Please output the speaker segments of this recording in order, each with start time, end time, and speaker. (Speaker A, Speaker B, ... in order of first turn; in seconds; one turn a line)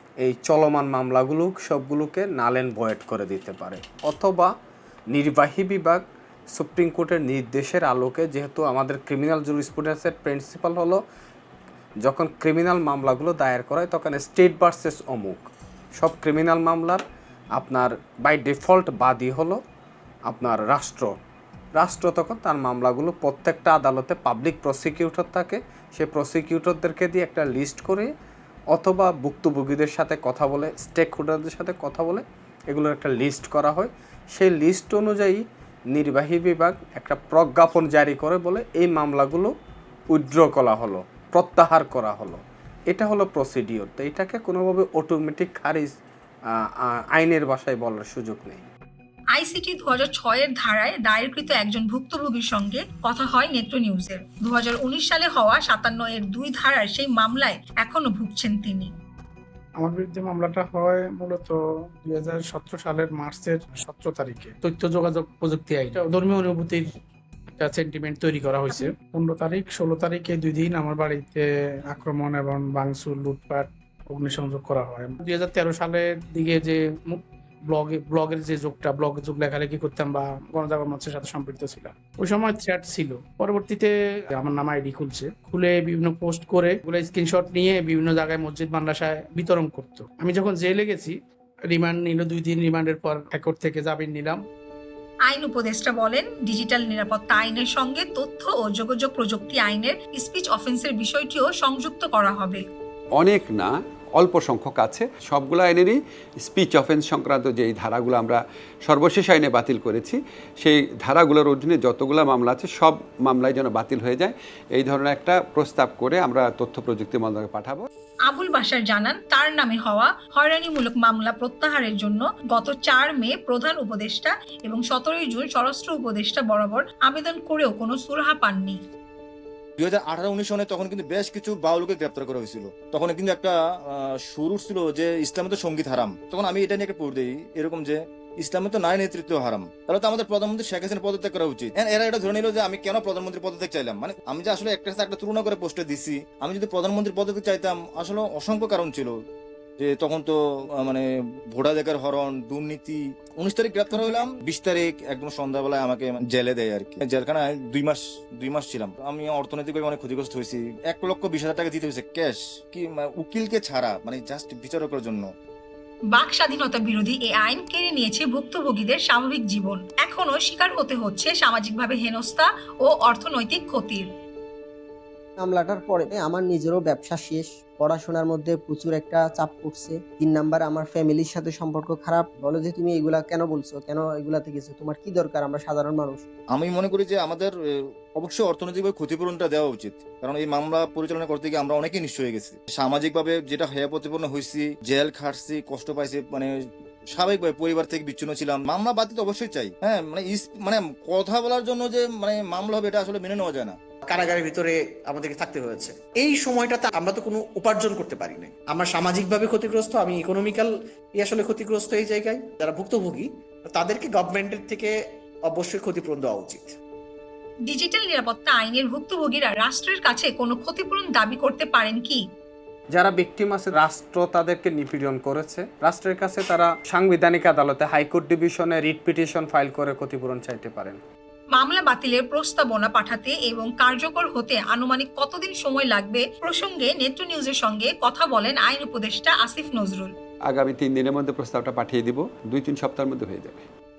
Speaker A: 0.2-4.5
Speaker A: 5.1-11.0
Speaker A: 12.0-17.0
Speaker A: 17.5-19.6
Speaker A: 20.3-21.2
Speaker A: 21.8-28.1
Speaker A: 28.7-39.5
Speaker A: 40.1-42.4
Speaker A: 42.9-46.0
Speaker A: 47.1-48.6
Speaker B: 49.3-58.9
Speaker C: 59.8-66.9
Speaker C: 67.6-91.1
Speaker C: 91.7-94.4
Speaker B: 95.2-102.6
Speaker D: 103.2-117.9
Speaker B: 118.3-128.8
Speaker E: 129.8-149.1
Speaker E: 149.8-165.3
Speaker B: 166.1-174.1
Speaker F: 175.4-186.2
Speaker E: 186.5-187.5
Speaker E: 188.1-196.5
Speaker E: 197.1-203.8
Speaker G: 204.1-214.9
Speaker G: 215.4-216.7
Speaker B: 217.6-222.2
Speaker A: 222.9-231.0
Speaker B: 231.5-240.1
Speaker D: 240.5-243.6